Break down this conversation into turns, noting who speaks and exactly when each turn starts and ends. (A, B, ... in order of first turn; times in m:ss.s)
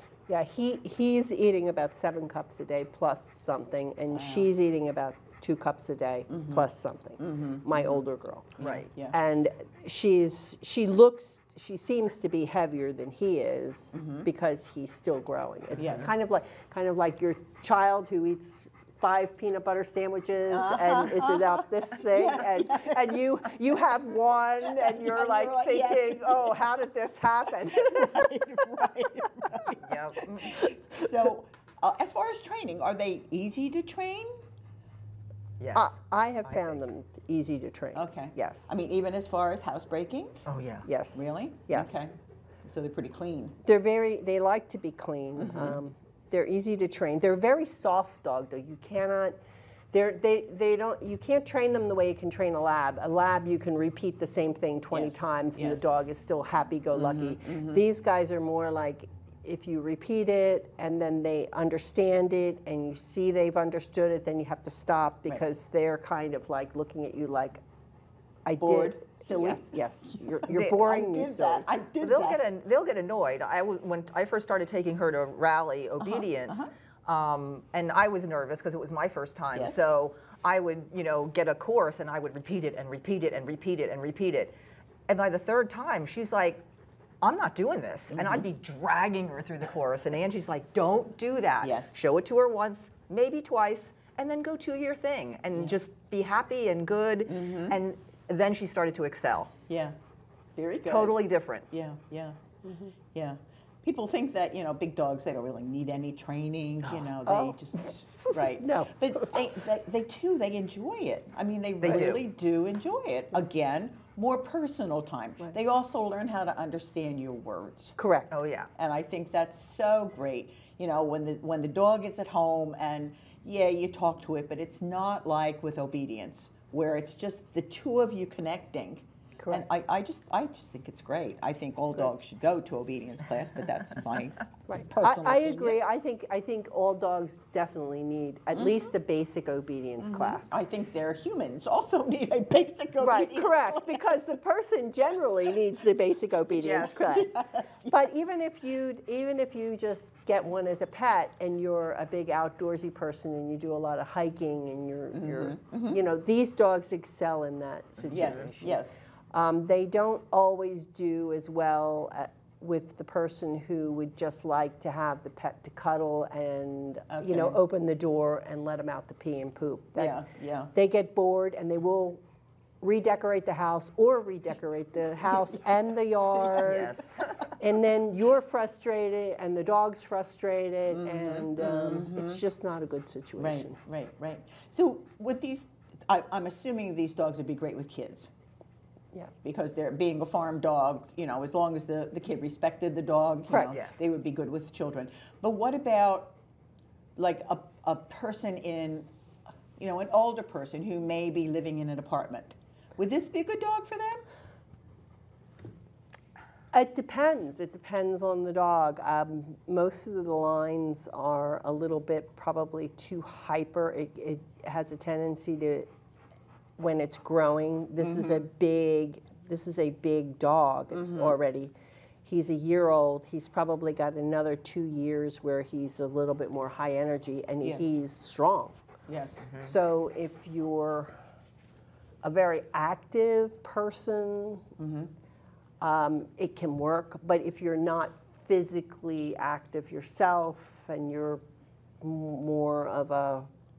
0:00.3-0:08.5 A
0:04.1-0:04.5 B
0:06.3-0:06.6 B
0:07.2-0:08.0 B
0:08.6-0:09.2 B
0:08.6-0:08.9 C
0:09.1-0:28.6 A
0:13.9-0:14.3 B
0:15.8-0:16.1 B
0:20.5-0:23.2 B
0:24.6-0:26.7 B
0:27.7-0:34.4 B
0:29.8-0:30.6 C
0:35.6-0:35.9 C
0:35.7-0:38.7 A
0:36.5-0:36.7 C
0:37.9-0:40.4 B
0:40.5-0:40.9 C
0:40.8-0:41.9 A
0:41.1-0:42.1 B
0:42.6-0:43.6 B
0:43.6-0:49.4 A
0:45.4-0:45.8 B
0:49.9-1:07.6 A
0:54.9-0:55.8 B
0:56.9-0:57.8 B
1:08.4-1:11.7 A
1:08.6-1:12.4 B
1:12.0-1:24.5 C
1:16.0-1:16.7 B
1:19.5-1:19.8 B
1:25.1-1:26.6 C
1:27.2-1:39.5 C
1:28.1-1:28.5 B
1:31.6-1:32.0 B
1:37.3-1:37.8 B
1:39.7-1:40.0 B
1:40.6-1:42.4 B
1:40.8-1:41.6 C
1:42.6-1:42.9 A
1:43.1-1:58.0 B
1:47.2-1:49.4 A
1:51.8-1:52.2 C
1:58.0-1:58.3 A
1:58.3-1:58.7 C
1:58.8-2:15.8 B
2:09.4-2:09.6 A
2:14.7-2:20.6 A
2:18.5-2:18.8 B
2:20.0-2:24.0 B
2:23.0-2:52.2 A
2:26.5-2:28.1 B
2:35.1-2:36.0 B
2:38.1-2:38.9 B
2:47.1-2:47.6 B
2:50.0-2:50.7 B
2:52.8-2:57.0 A
2:56.4-2:57.0 B
2:56.6-2:57.5 C
2:57.6-3:03.8 A
3:00.9-3:02.4 B
3:03.4-3:08.3 B
3:09.4-3:16.3 B
3:13.5-3:13.7 A
3:13.7-3:14.1 C
3:17.2-3:19.1 B
3:19.8-3:24.2 B
3:26.7-3:35.9 A
3:36.8-3:41.7 A
3:38.0-3:38.4 B
3:40.9-3:41.4 B
3:42.2-3:48.8 A
3:47.6-3:48.0 B
3:49.1-3:49.4 B
3:49.6-3:51.1 A
3:52.2-3:54.7 A
3:54.8-3:55.1 B
3:55.8-4:01.4 A
4:02.0-4:03.5 A